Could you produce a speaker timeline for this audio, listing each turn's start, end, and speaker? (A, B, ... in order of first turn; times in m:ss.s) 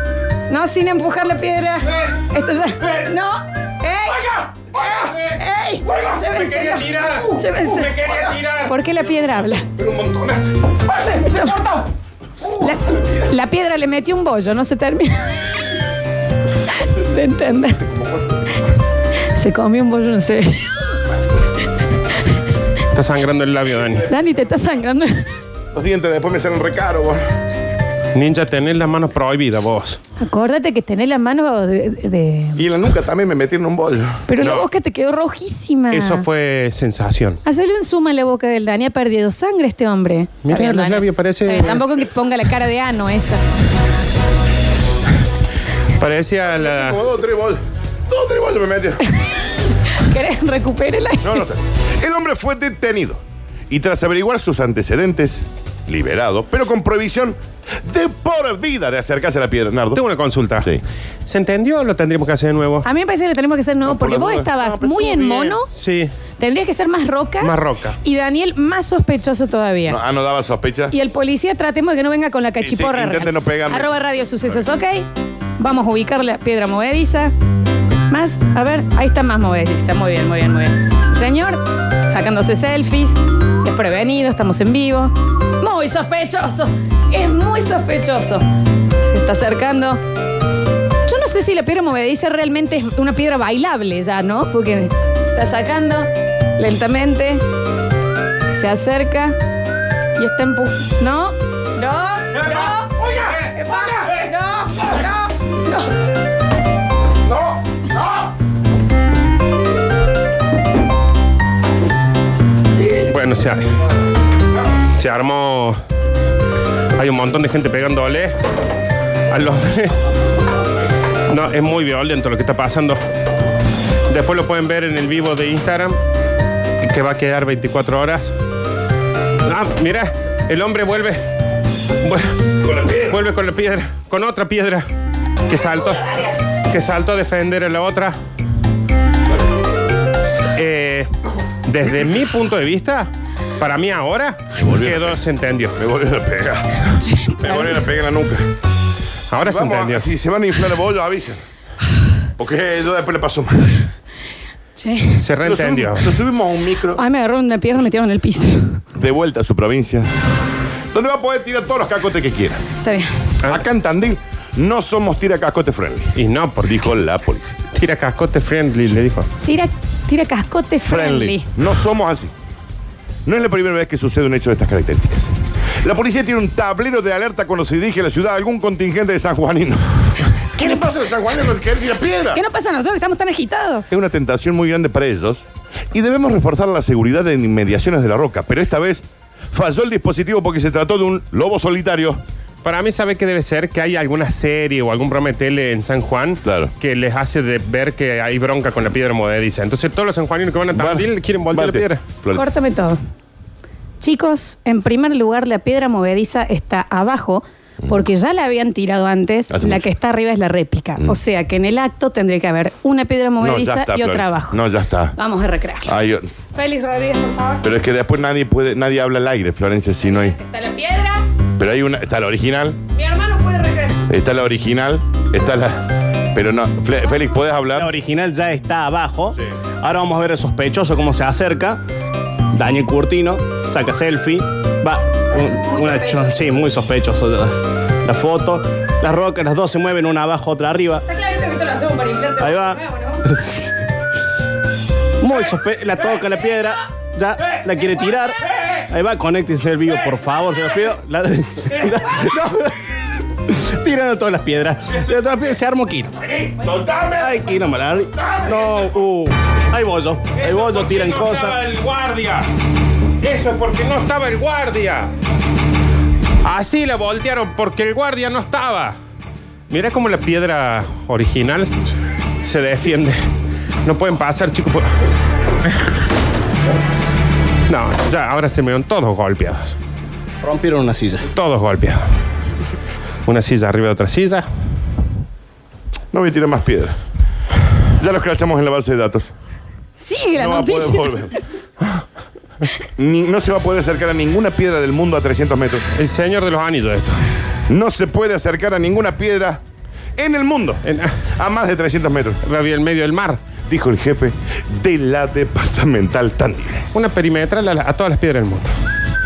0:00.5-0:09.7 A
0:04.3-0:05.1 B
0:06.1-0:08.8 C
0:09.7-0:11.8 B
0:11.1-0:11.8 A
0:12.6-0:15.6 A
0:16.6-0:18.0 A
0:19.1-0:20.9 A
0:22.9-0:24.1 C
0:24.0-0:25.3 A
0:25.7-0:27.2 B
0:28.1-0:30.0 C
0:30.2-0:32.6 A
0:32.6-0:34.2 B
0:34.3-0:36.3 A
0:34.4-0:34.7 C
0:35.9-0:37.4 C
0:37.4-0:43.4 A
0:40.4-0:41.9 C
0:46.0-0:47.0 C
0:46.4-0:49.1 B
0:49.2-0:51.4 A
0:51.2-1:00.0 B
0:59.9-1:00.7 C
1:01.3-1:02.9 C
1:02.8-1:05.7 A
1:03.8-1:05.6 B
1:05.7-1:06.1 C
1:06.4-1:10.0 A
1:07.4-1:08.0 C
1:09.9-1:11.0 B
1:10.9-1:15.1 A
1:12.6-1:14.7 B
1:15.6-1:17.3 A
1:18.1-1:28.5 A
1:29.1-1:30.0 A
1:31.1-1:37.4 A
1:38.5-1:39.4 A
1:40.2-1:45.9 A
1:42.5-1:43.5 B
1:47.3-1:48.2 B
1:52.9-1:53.7 C
1:54.8-1:55.8 C
1:57.0-1:58.4 C
1:59.3-2:00.0 C
2:01.3-2:03.0 C
2:04.1-2:06.0 C
2:06.8-2:08.3 C
2:09.4-2:11.2 C
2:12.0-2:12.4 C
2:12.6-2:13.2 B
2:13.0-2:14.8 C
2:15.5-2:18.2 C
2:20.6-2:21.1 C
2:21.7-2:25.8 C
2:24.6-2:25.2 B
2:25.8-2:28.5 B
2:27.0-2:27.8 A
2:29.3-2:30.1 C
2:29.3-2:31.4 B
2:32.4-2:33.8 B
2:34.8-2:35.2 A
2:35.1-2:36.2 C
2:35.4-2:37.0 B
2:36.9-2:38.8 A
2:39.0-2:40.1 B
2:40.9-2:42.6 B
2:42.8-2:43.1 A
2:43.4-2:47.6 B
2:46.2-2:46.9 C
2:47.7-2:49.3 C
2:49.4-2:51.4 A
2:50.9-2:52.3 B
2:53.3-3:02.4 B
3:02.3-3:03.8 A
3:03.9-3:12.2 B
3:12.6-3:22.0 C
3:16.4-3:16.7 B
3:20.7-3:22.5 B
3:22.3-3:23.0 A
3:24.0-3:34.6 A
3:29.5-3:29.9 B
3:33.4-3:35.2 B
3:35.1-3:35.9 A
3:35.8-3:36.3 B
3:36.5-3:37.6 A
3:37.6-3:40.4 B
3:40.1-3:41.3 A
3:41.6-3:42.8 B
3:42.9-3:44.0 A
3:44.1-3:47.9 B
3:47.7-3:51.8 D
3:52.5-4:01.0 D
3:55.5-3:56.4 A
4:01.1-4:03.2 A
4:02.4-4:03.7 D
4:05.2-4:16.4 D
4:16.5-4:17.4 B
4:17.2-4:21.6 D
4:18.1-4:18.9 B
4:20.4-4:22.5 C
4:23.2-4:25.1 C
4:26.4-4:29.0 C
4:29.7-4:31.7 C
4:32.4-4:33.2 C
4:33.8-4:34.9 C
4:37.7-4:39.8 C
4:40.4-4:41.3 D
4:41.3-4:42.0 C
4:43.2-4:44.4 C
4:46.1-4:47.0 B
4:48.0-4:49.3 B
4:50.0-4:51.4 A
4:50.4-4:51.4 B
4:53.0-4:55.9 B
4:55.9-4:57.2 C
4:57.7-4:59.6 B
5:00.2-5:00.8 B
5:00.8-5:01.2 C
5:01.4-5:02.4 B
5:02.4-5:03.4 C
5:03.7-5:07.0 B
5:06.9-5:08.7 C